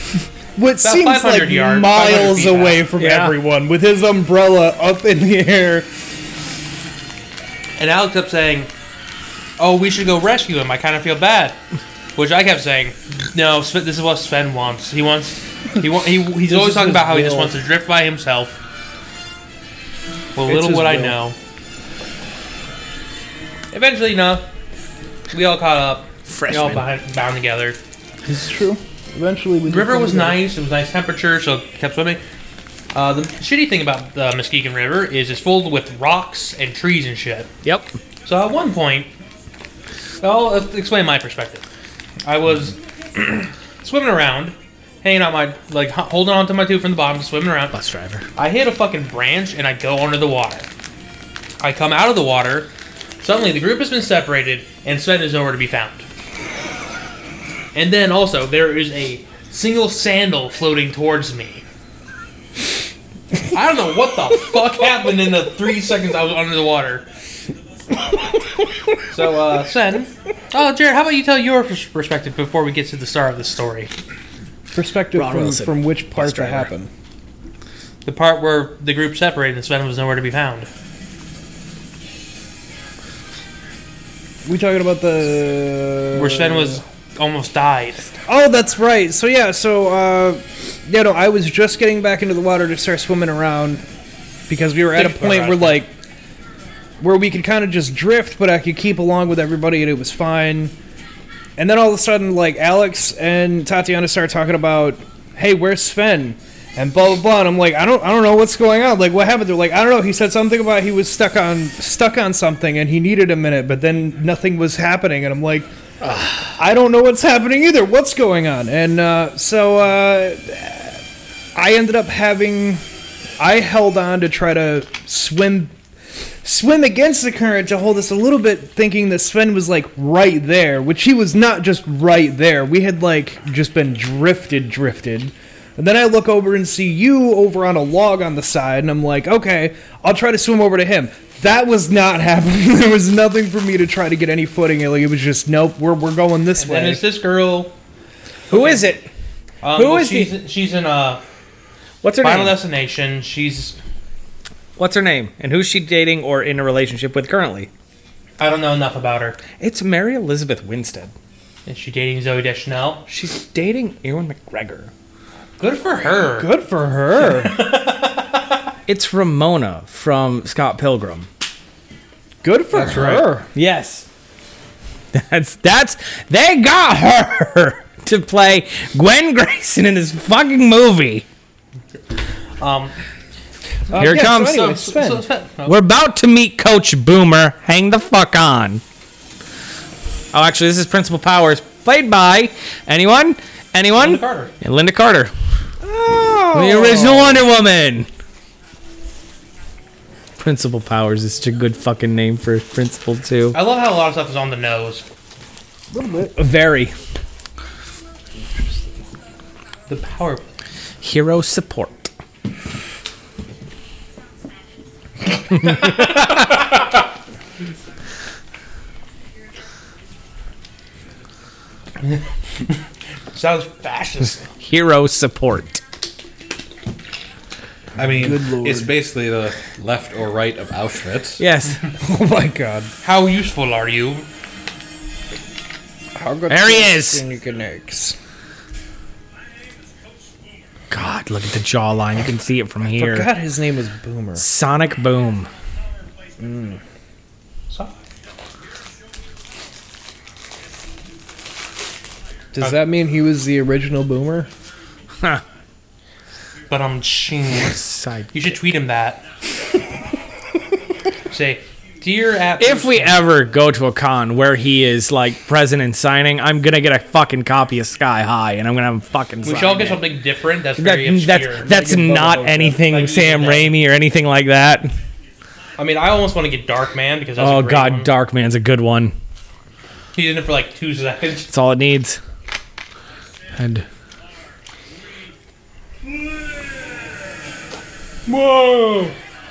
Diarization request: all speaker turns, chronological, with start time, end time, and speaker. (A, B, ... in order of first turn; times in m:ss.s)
0:00.6-0:05.9 A
0:00.8-0:02.9 B
0:03.0-0:03.4 C
0:07.8-0:08.7 B
0:09.6-0:11.6 B
0:12.2-0:18.6 B
0:16.4-0:17.5 A
0:20.4-0:21.4 B
0:20.5-0:21.2 A
0:23.7-0:24.5 B
0:25.3-0:27.8 B
0:26.3-0:26.8 C
0:28.2-0:30.4 A
0:29.7-0:32.2 B
0:32.9-0:37.5 B
0:37.6-0:38.0 C
0:38.2-0:39.1 B
0:40.2-0:41.6 B
0:42.2-0:47.8 B
0:47.7-0:48.3 C
0:48.4-0:50.7 B
0:51.6-0:56.1 B
0:57.8-1:01.6 B
1:03.5-1:07.0 B
1:09.1-1:13.9 B
1:14.7-1:16.9 A
1:15.1-1:16.7 C
1:18.0-1:20.7 B
1:24.4-1:26.8 A
1:26.1-1:28.1 B
1:28.3-1:33.8 A
1:34.5-1:35.9 A
1:34.9-1:35.8 B
1:37.0-1:40.7 A
1:41.6-1:55.7 A
1:56.0-1:56.5 C
1:56.6-2:01.0 A
2:01.6-2:02.8 A
2:03.4-2:05.7 A
2:06.4-2:27.0 A
2:26.6-2:27.7 B
2:28.5-2:29.1 C
2:28.5-2:28.8 B
2:29.6-2:31.2 B
2:29.7-2:30.4 C
2:32.0-2:32.6 C
2:32.2-2:33.8 B
2:34.8-2:37.7 C
2:38.4-2:39.4 B
2:39.6-2:41.1 C
2:41.7-2:43.1 B
2:43.1-2:44.9 C
2:45.6-2:46.5 B
2:46.3-2:47.6 A
2:47.2-2:48.6 B
2:48.9-2:51.3 C
2:52.4-2:53.5 A
2:52.7-2:53.3 D
2:53.5-2:54.1 C
2:55.1-3:01.2 C
3:02.6-3:03.0 B
3:03.9-3:05.2 A
3:04.0-3:04.7 C
3:04.1-3:05.8 B
3:05.7-3:08.8 C
3:10.3-3:15.3 C
3:14.0-3:14.5 B
3:15.8-3:17.5 A
3:16.5-3:18.1 C
3:20.4-3:23.6 C
3:23.5-3:25.0 B
3:25.9-3:26.9 A
3:29.9-3:30.6 B
3:31.0-3:32.1 C
3:35.6-3:36.5 C
3:42.1-3:42.8 B
3:43.3-3:44.5 B
3:44.6-3:45.8 C
3:48.0-3:51.4 D
3:48.2-3:48.9 A
3:51.4-3:51.8 C
3:52.0-3:52.9 A
3:53.0-3:54.3 B
3:56.2-3:58.2 A
3:56.5-3:57.2 C
4:00.9-4:03.3 C
4:03.0-4:04.4 A
4:04.4-4:05.5 C
4:06.4-4:06.8 A
4:12.6-4:14.5 A
4:16.7-4:17.8 B
4:17.6-4:18.6 C
4:18.3-4:19.2 B
4:21.3-4:23.2 B
4:22.6-4:30.1 C
4:29.4-4:31.7 B
4:30.8-4:34.9 C
4:31.6-4:32.9 A
4:32.8-4:33.8 B
4:35.8-4:38.1 B
4:37.4-4:39.2 C
4:40.2-4:41.5 B
4:41.5-4:42.2 C
4:43.6-4:43.8 C
4:48.4-4:49.0 B